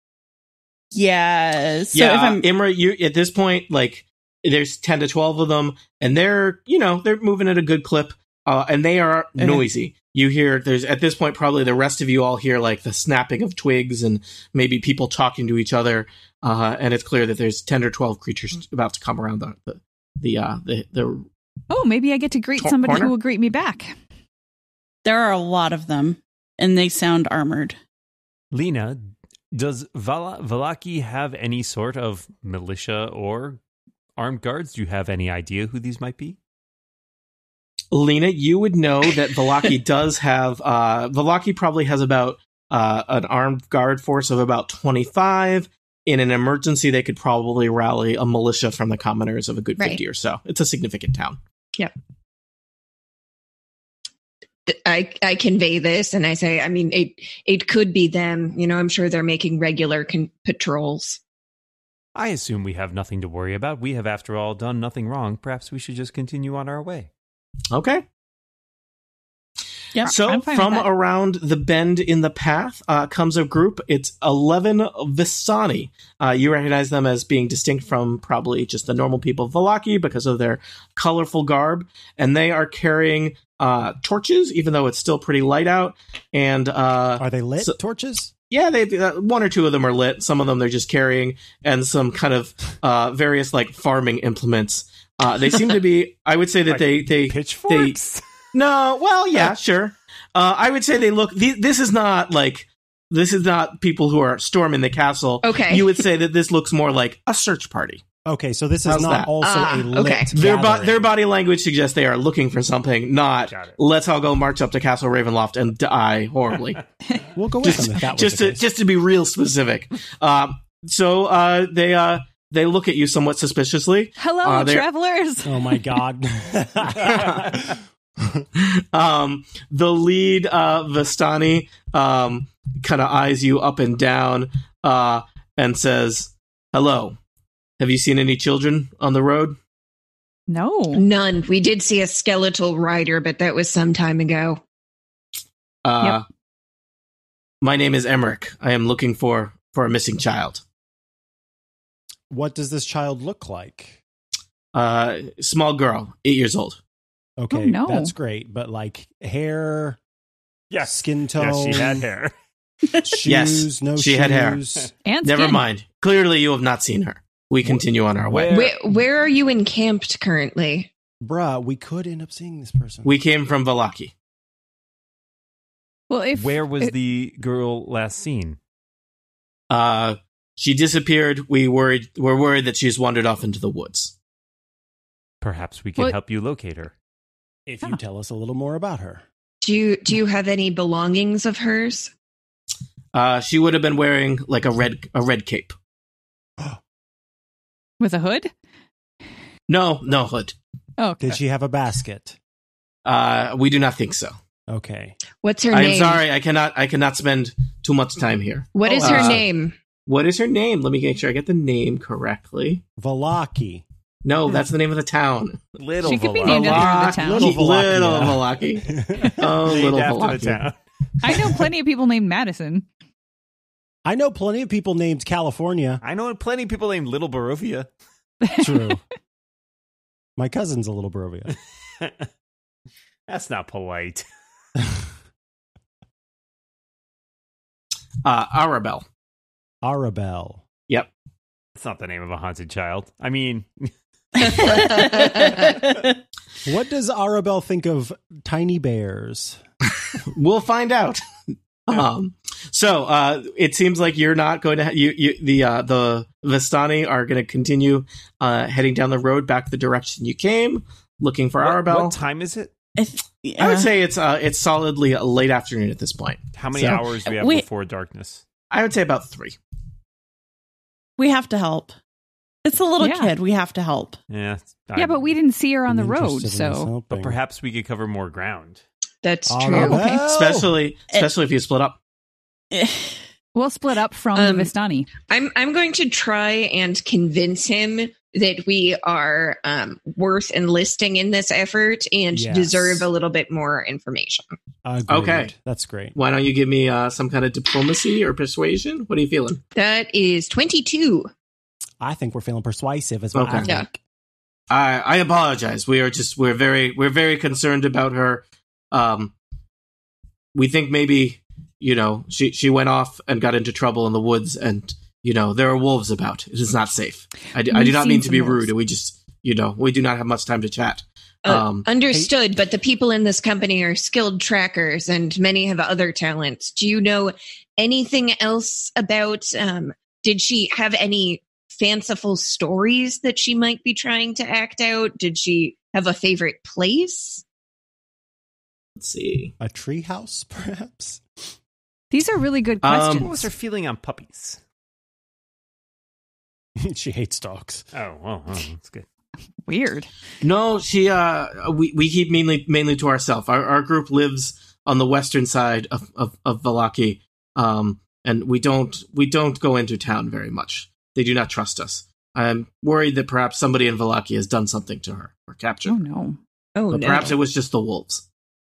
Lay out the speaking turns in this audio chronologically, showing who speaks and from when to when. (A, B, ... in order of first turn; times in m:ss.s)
0:00.9-0:02.5 A
0:01.9-0:21.3 B
0:09.4-0:09.6 A
0:21.7-0:23.9 C
0:22.6-0:23.1 B
0:25.0-0:27.8 A
0:28.5-0:29.0 D
0:29.5-0:33.6 D
0:34.2-0:36.4 D
0:37.9-0:51.4 B
0:54.7-1:01.2 E
1:02.2-1:07.1 D
1:07.7-1:08.0 B
1:10.0-1:10.9 C
1:10.0-1:27.8 B
1:27.2-1:28.3 F
1:28.5-1:38.0 B
1:36.7-1:38.2 D
1:38.5-1:48.0 B
1:45.4-1:46.0 E
1:48.2-1:51.1 F
1:48.9-1:49.3 B
1:49.4-1:50.3 E
1:50.3-1:56.8 B
1:53.5-1:53.8 D
1:57.4-1:58.6 F
1:57.6-2:04.9 B
2:04.2-2:05.8 C
2:05.4-2:08.5 F
2:08.6-2:17.2 B
2:17.8-2:19.6 B
2:20.5-2:21.0 C
2:20.9-2:24.6 E
2:25.8-2:26.2 B
2:27.6-2:30.6 B
2:32.3-2:34.0 F
2:34.7-2:36.8 B
2:37.4-2:40.0 F
2:37.5-2:38.1 C
2:40.7-2:42.3 D
2:40.8-2:42.0 F
2:43.0-2:44.9 F
2:43.2-2:44.6 B
2:45.0-2:45.6 C
2:45.2-2:48.7 B
2:48.2-2:48.7 D
2:48.5-2:50.9 E
2:51.2-2:53.1 F
2:53.0-2:54.1 B
2:56.1-2:56.9 C
2:56.4-2:58.6 D
2:59.7-3:04.1 B
3:05.4-3:06.9 D
3:07.7-3:09.2 F
3:09.6-3:12.1 E
3:13.1-3:15.7 B
3:18.0-3:18.5 C
3:19.7-3:20.6 B
3:21.0-3:21.4 C
3:21.2-3:22.4 F
3:23.0-3:24.4 B
3:24.7-3:25.2 F
3:25.4-3:26.2 E
3:25.7-3:29.4 B
3:28.8-3:29.8 E
3:30.1-3:32.8 B
3:33.0-3:33.8 F
3:34.2-3:35.7 B
3:35.8-3:37.3 D
3:36.0-3:37.6 C
3:36.4-3:40.6 B
3:37.1-3:39.5 F
3:39.6-3:40.8 D
3:41.2-3:42.9 C
3:44.0-3:46.0 F
3:46.0-3:47.9 D
3:48.4-3:48.9 C
3:48.6-3:49.0 F
3:50.4-3:51.6 F
3:53.3-3:54.3 D
3:58.2-3:59.0 B
3:59.8-4:00.6 F
4:01.8-4:05.1 D
4:04.4-4:06.1 A
4:06.6-4:09.6 F
4:10.3-4:11.2 B
4:11.9-4:22.2 B
4:21.6-4:22.7 D
4:23.0-4:23.9 A
4:23.6-4:27.0 B
4:26.5-4:28.4 D
4:27.2-4:27.6 A
4:28.7-4:29.6 B
4:31.2-4:31.9 A
4:32.6-4:34.2 A
4:33.0-4:33.3 C
4:34.3-4:35.3 D
4:35.0-4:36.9 C
4:35.9-4:37.4 F
4:37.1-4:38.8 D
4:39.2-4:40.1 E
4:39.5-4:40.8 F
4:39.7-4:40.1 C
4:40.1-4:42.0 B
4:42.7-4:43.2 A
4:43.6-4:45.1 C
4:44.4-4:44.7 E
4:45.2-4:54.5 E
4:52.3-4:53.1 F
4:54.8-4:56.2 F
4:55.1-4:55.5 B
4:56.2-4:59.6 B
4:59.8-5:01.3 E
5:02.0-5:04.0 F
5:03.4-5:03.7 B
5:04.7-5:09.3 B
5:10.5-5:21.9 B
5:17.7-5:18.7 C
5:21.4-5:37.4 E
5:39.0-5:39.5 B
5:39.6-5:41.2 F
5:42.1-5:43.4 C
5:42.8-5:43.4 B
5:43.2-5:44.6 D
5:46.8-5:47.9 F
5:47.9-5:49.0 D
5:49.7-5:50.1 C
5:50.4-6:06.0 B
6:05.9-6:06.4 C
6:06.8-6:07.4 E
6:06.9-6:08.2 B